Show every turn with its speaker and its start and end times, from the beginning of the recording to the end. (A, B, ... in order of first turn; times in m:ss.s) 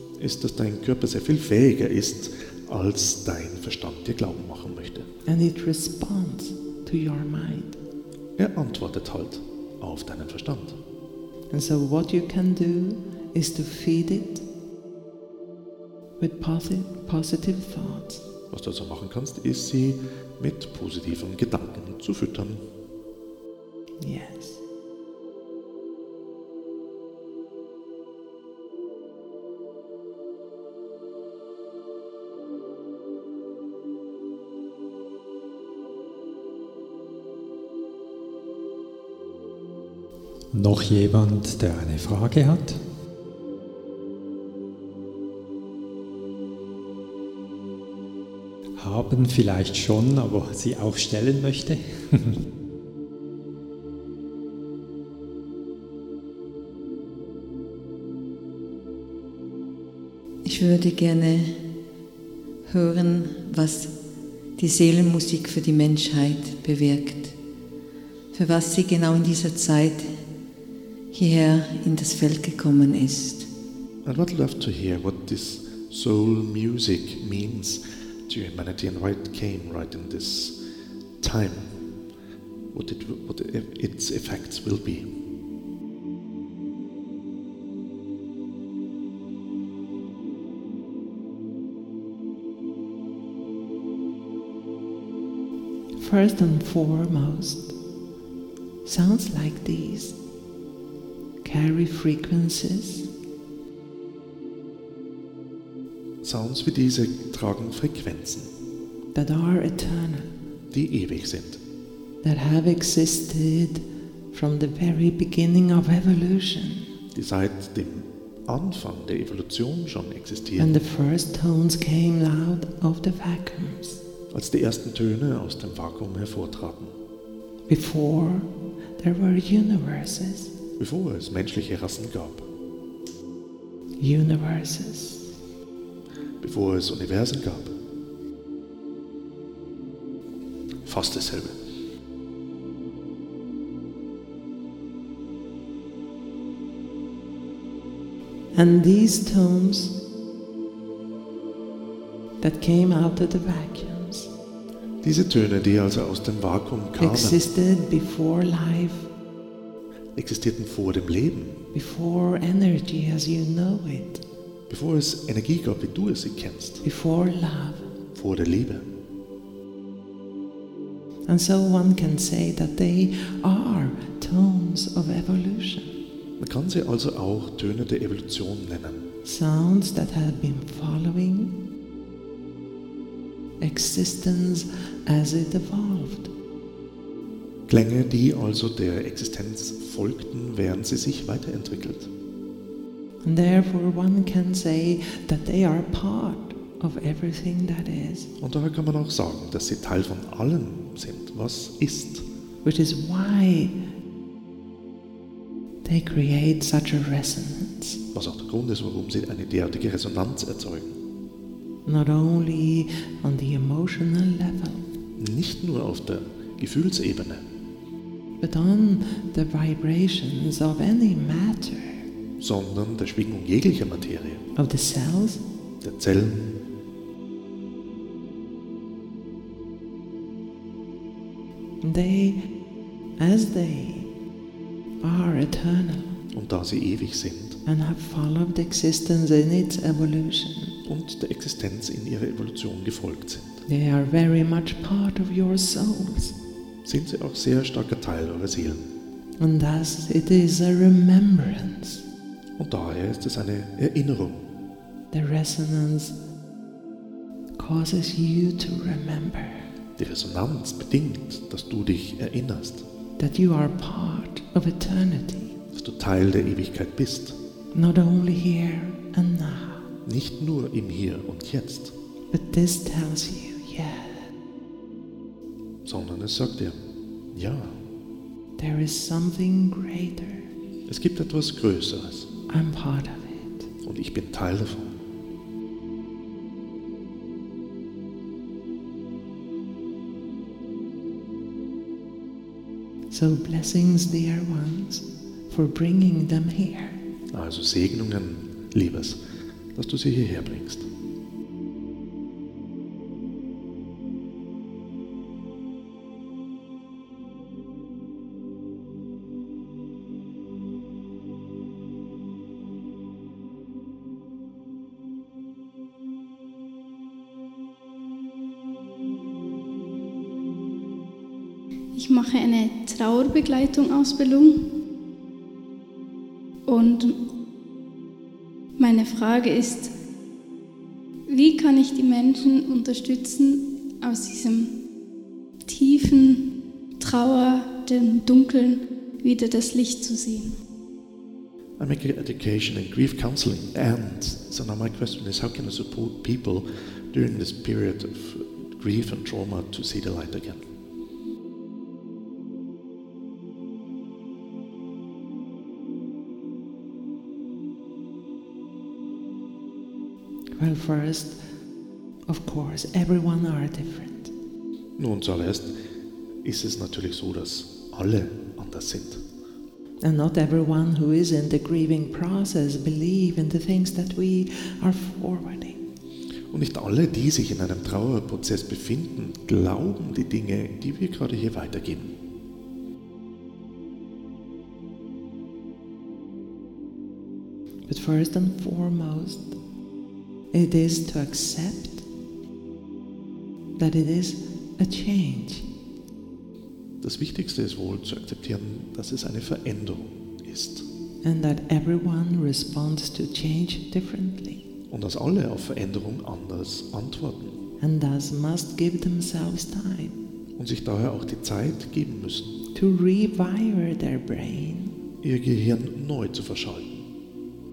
0:00.2-0:05.1 A
0:05.2-0:07.8 B
0:08.4-0:10.8 A
0:11.5-0:14.4 B
0:16.2-0:18.2 B
0:18.5-0:22.6 A
0:24.0-0:24.6 B
0:40.5-0:42.8 C
0:48.8-0:52.4 C
1:00.4-1:01.5 D
1:02.7-1:03.9 D
1:04.6-1:07.3 D
1:08.3-1:10.1 D
1:11.1-1:13.4 D
1:14.0-1:20.6 A
1:21.2-1:21.7 A
1:22.7-1:25.1 A
1:36.0-1:37.7 B
1:38.8-1:40.2 B
1:41.4-1:43.1 B
1:46.2-1:48.5 A
1:49.1-1:50.3 B
1:50.7-1:51.6 A
1:52.2-1:56.9 B
1:57.1-2:00.8 A
2:00.6-2:04.0 B
2:04.3-2:06.9 A
2:07.7-2:10.5 B
2:10.8-2:12.5 A
2:14.0-2:15.3 B
2:16.4-2:17.7 A
2:20.8-2:21.6 A
2:28.5-2:29.9 B
2:32.4-2:34.3 B
2:35.0-2:37.4 A
2:37.0-2:39.1 B
2:40.1-2:41.6 A
2:41.7-2:44.2 B
2:44.7-2:46.8 A
2:46.8-2:47.8 B
2:48.1-2:48.9 A
2:51.3-2:55.9 B
2:56.4-2:59.1 A
2:59.2-3:01.5 B
3:03.6-3:06.3 B
3:07.7-3:12.1 A
3:13.2-3:18.3 B
3:18.4-3:22.2 A
3:22.6-3:23.7 B
3:25.8-3:28.0 B
3:28.1-3:31.0 A
3:31.8-3:34.8 B
3:35.2-3:37.4 A
3:38.4-3:42.0 B
3:42.4-3:44.4 A
3:44.6-3:45.4 B
3:45.8-3:46.6 A
3:51.8-3:52.4 B
3:53.2-3:54.1 B
3:55.0-3:56.1 B
3:56.3-3:57.6 A
3:57.6-4:00.8 B
4:00.8-4:03.6 A
4:03.7-4:06.4 B
4:06.8-4:08.9 A
4:09.4-4:12.0 B
4:12.6-4:14.5 A
4:15.1-4:16.1 B
4:17.6-4:19.6 B
4:20.0-4:22.8 A
4:23.2-4:25.5 B
4:25.7-4:27.4 A
4:27.7-4:29.9 B
4:30.0-4:31.9 A
4:32.3-4:34.3 B
4:35.8-4:36.8 A
4:37.3-4:37.8 A
4:38.6-4:40.5 B
4:40.9-4:42.3 A
4:42.5-4:43.7 B
4:43.8-4:45.0 A
4:53.1-4:57.0 B
4:57.3-4:59.2 A
4:59.7-5:00.9 A
5:21.9-5:24.6 E
5:26.7-5:27.2 E
5:28.8-5:29.9 E
5:31.3-5:34.7 E
5:35.7-5:36.4 E
5:37.0-5:40.5 E
5:41.8-5:50.6 A
6:00.6-6:01.4 B
6:02.3-6:04.3 B
6:05.0-6:05.8 A
6:06.4-6:09.2 A
6:10.0-6:15.8 B
6:16.5-6:22.1 A
6:27.9-6:29.5 B
6:30.5-6:32.0 B
6:33.8-6:35.6 B
6:37.0-6:40.8 A
6:41.2-6:44.6 B
6:44.9-6:47.6 A
6:47.8-6:50.2 B
6:50.6-6:52.6 A
6:52.7-6:54.9 B
6:55.2-6:57.1 A